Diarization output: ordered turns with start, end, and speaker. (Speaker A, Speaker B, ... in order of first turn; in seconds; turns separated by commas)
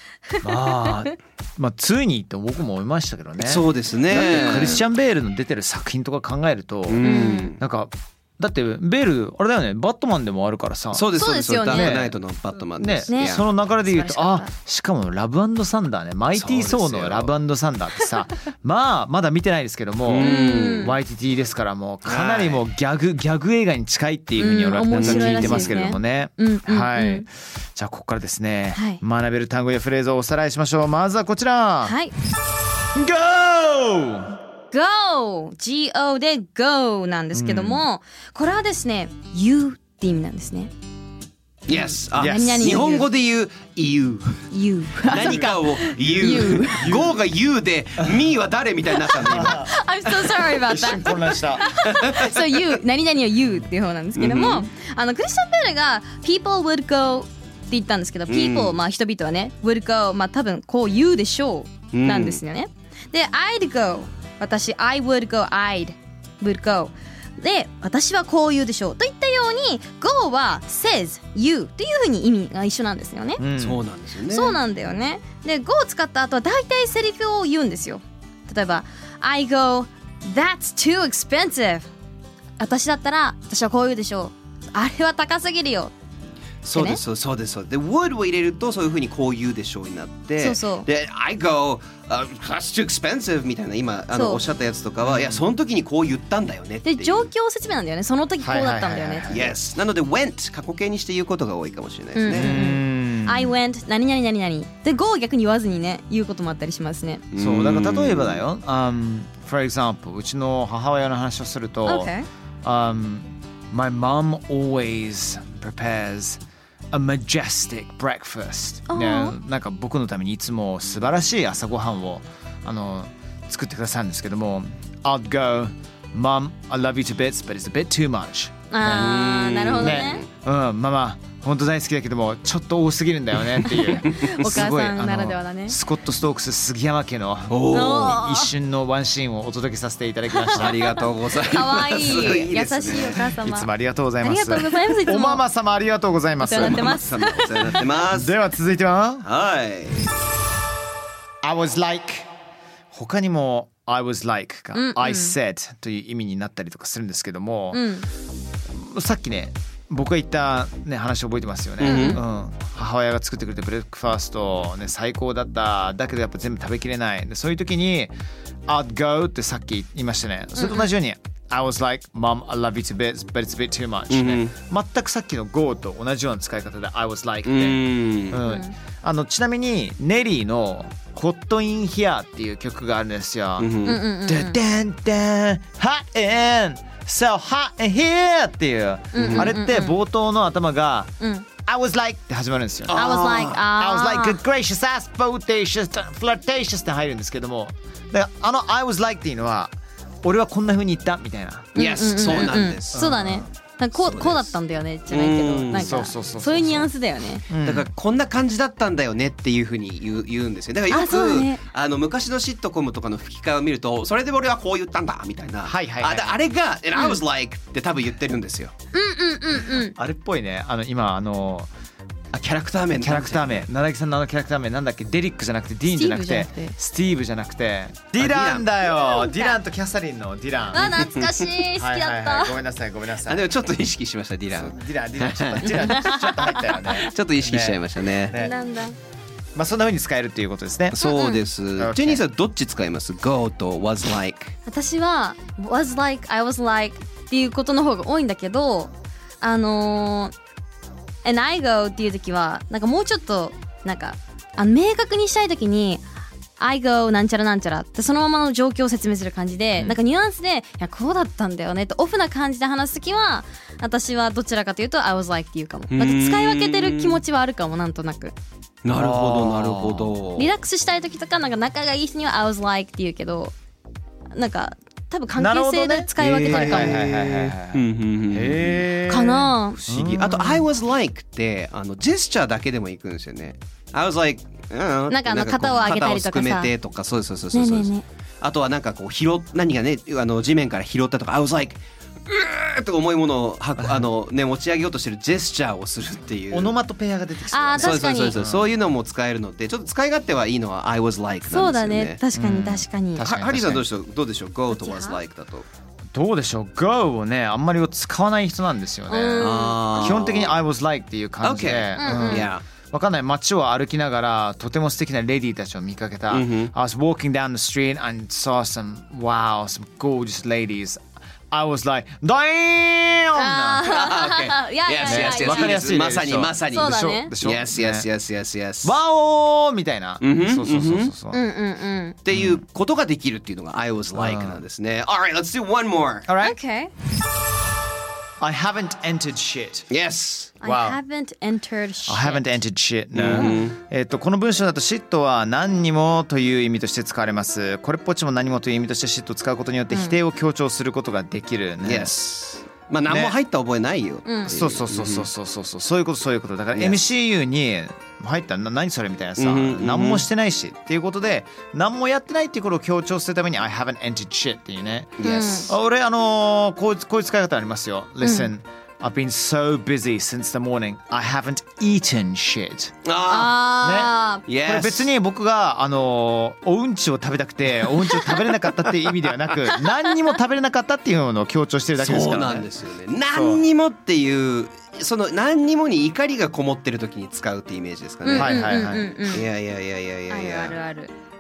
Speaker A: 0.3-1.1, Speaker B: 0.4-12.2, Speaker C: 3.4-4.8, Speaker A: 4.1-4.8, Speaker C: 6.9-7.6, Speaker A: 7.0-7.5, Speaker C: 10.9-13.4, Speaker A: 11.2-12.0, Speaker B: 12.8-32.0, Speaker A: 13.1-14.5, Speaker C: 16.4-17.3, Speaker C: 20.1-20.9, Speaker A: 20.2-21.0, Speaker C: 22.1-22.6, Speaker A: 24.4-27.3, Speaker C: 24.9-25.8, Speaker A: 28.8-29.0, Speaker A: 31.8-32.1, Speaker B: 32.9-34.3, Speaker A: 34.7-40.7, Speaker B: 37.3-37.9, Speaker C: 41.7-44.5, Speaker A: 41.7-43.1, Speaker B: 42.1-42.7, Speaker A: 44.5-46.9, Speaker C: 45.1-49.7, Speaker B: 45.1-47.1, Speaker A: 49.0-73.4, Speaker B: 49.2-49.7, Speaker B: 50.4-51.7, Speaker C: 51.8-52.6, Speaker C: 54.2-54.6, Speaker C: 58.3-58.8, Speaker C: 61.9-62.4, Speaker B: 73.4-73.8, Speaker C: 73.6-74.6, Speaker A: 74.3-81.9, Speaker A: 82.6-85.9, Speaker C: 86.6-97.3, Speaker A: 86.7-87.0, Speaker A: 90.4-90.9, Speaker A: 94.1-94.4, Speaker B: 95.0-95.5, Speaker A: 96.8-99.3, Speaker B: 98.4-99.6, Speaker C: 99.3-102.6, Speaker A: 102.2-107.2, Speaker B: 102.3-103.5, Speaker C: 107.3-108.4, Speaker B: 107.4-112.1, Speaker A: 111.9-112.3, Speaker B: 112.6-129.1, Speaker A: 118.9-119.4, Speaker A: 128.7-130.2, Speaker C: 128.9-130.3, Speaker B: 129.8-140.9, Speaker C: 133.5-134.4, Speaker A: 133.9-135.8, Speaker C: 137.5-138.2, Speaker A: 137.7-138.5, Speaker A: 140.3-143.7, Speaker C: 140.6-143.2, Speaker B: 142.1-142.4, Speaker B: 143.4-147.0, Speaker A: 144.2-145.4, Speaker A: 146.4-147.8, Speaker C: 146.5-148.4, Speaker B: 148.1-149.3, Speaker C: 149.2-150.2, Speaker B: 151.4-152.3, Speaker B: 152.9-157.9, Speaker A: 154.7-155.3, Speaker A: 157.7-158.1, Speaker B: 158.7-168.1, Speaker C: 161.8-162.2, Speaker A: 161.8-162.2, Speaker B: 168.7-191.1, Speaker A: 170.6-170.9, Speaker C: 174.1-174.5, Speaker C: 177.5-178.4, Speaker A: 178.4-178.7, Speaker C: 183.6-184.0, Speaker A: 183.8-184.6, Speaker A: 189.1-190.0, Speaker C: 189.2-189.5, Speaker A: 191.2-191.5, Speaker B: 191.7-193.1, Speaker C: 192.9-193.6, Speaker A: 192.9-194.4, Speaker B: 193.7-201.7, Speaker C: 201.8-203.1, Speaker A: 201.8-207.4, Speaker B: 202.2-203.5, Speaker C: 203.9-204.5, Speaker C: 205.1-206.0, Speaker B: 205.7-206.9, Speaker B: 207.5-207.9, Speaker C: 207.6-218.7, Speaker A: 210.9-211.6, Speaker B: 215.6-216.4, Speaker A: 218.9-219.9, Speaker B: 219.8-221.7, Speaker C: 222.3-223.7, Speaker B: 223.0-231.1, Speaker A: 225.9-226.7, Speaker C: 228.2-228.7, Speaker A: 228.9-229.6, Speaker A: 230.7-232.6, Speaker C: 231.0-231.4, Speaker B: 231.8-233.6, Speaker C: 233.3-238.4, Speaker B: 234.5-238.6, Speaker A: 235.7-236.7, Speaker A: 238.3-238.9, Speaker B: 239.6-241.0, Speaker C: 240.9-244.6, Speaker A: 241.0-241.4, Speaker B: 241.8-242.2, Speaker A: 244.7-250.3, Speaker A: 251.2-256.0, Speaker A: 256.6-268.4, Speaker C: 265.9-267.2, Speaker C: 268.8-270.5, Speaker B: 268.9-270.1, Speaker A: 270.4-273.5, Speaker A: 274.3-277.0, Speaker B: 275.3-280.7, Speaker C: 276.2-278.9, Speaker A: 279.1-279.8, Speaker C: 279.9-296.8, Speaker A: 285.1-286.7, Speaker A: 287.5-288.1, Speaker B: 293.8-294.1, Speaker B: 296.5-298.7, Speaker A: 297.5-298.4, Speaker C: 297.8-302.2, Speaker A: 301.5-303.3, Speaker B: 302.4-303.8, Speaker C: 303.2-305.7, Speaker A: 304.7-305.2, Speaker B: 306.1-323.9, Speaker A: 309.1-310.2, Speaker C: 309.4-310.6, Speaker C: 311.4-312.6, Speaker A: 312.0-312.5, Speaker C: 316.3-316.7, Speaker A: 323.4-325.8, Speaker C: 323.9-329.0, Speaker B: 325.0-328.1, Speaker A: 326.7-327.3, Speaker B: 328.8-331.4, Speaker C: 330.2-331.1, Speaker A: 331.3-332.2, Speaker C: 332.2-336.3, Speaker B: 332.3-332.6, Speaker B: 334.1-334.6, Speaker B: 336.3-336.6, Speaker A: 336.4-336.9, Speaker B: 338.4-339.9, Speaker C: 339.9-340.5, Speaker B: 340.6-341.0, Speaker A: 340.6-342.5, Speaker B: 342.1-352.1, Speaker C: 343.1-343.8, Speaker A: 343.3-343.6, Speaker A: 349.9-350.2, Speaker C: 351.8-355.3, Speaker B: 353.1-353.4, Speaker A: 354.2-354.5, Speaker B: 354.5-373.0, Speaker C: 356.8-357.0, Speaker C: 359.4-360.2, Speaker C: 365.2-365.7, Speaker A: 365.2-365.7, Speaker A: 368.2-368.5, Speaker C: 373.1-373.6, Speaker A: 373.3-374.4, Speaker B: 373.8-382.7, Speaker C: 374.5-375.1, Speaker C: 382.0-388.7, Speaker B: 383.3-383.6, Speaker A: 388.2-389.4, Speaker B: 388.4-389.1, Speaker C: 389.3-390.8, Speaker A: 390.3-391.1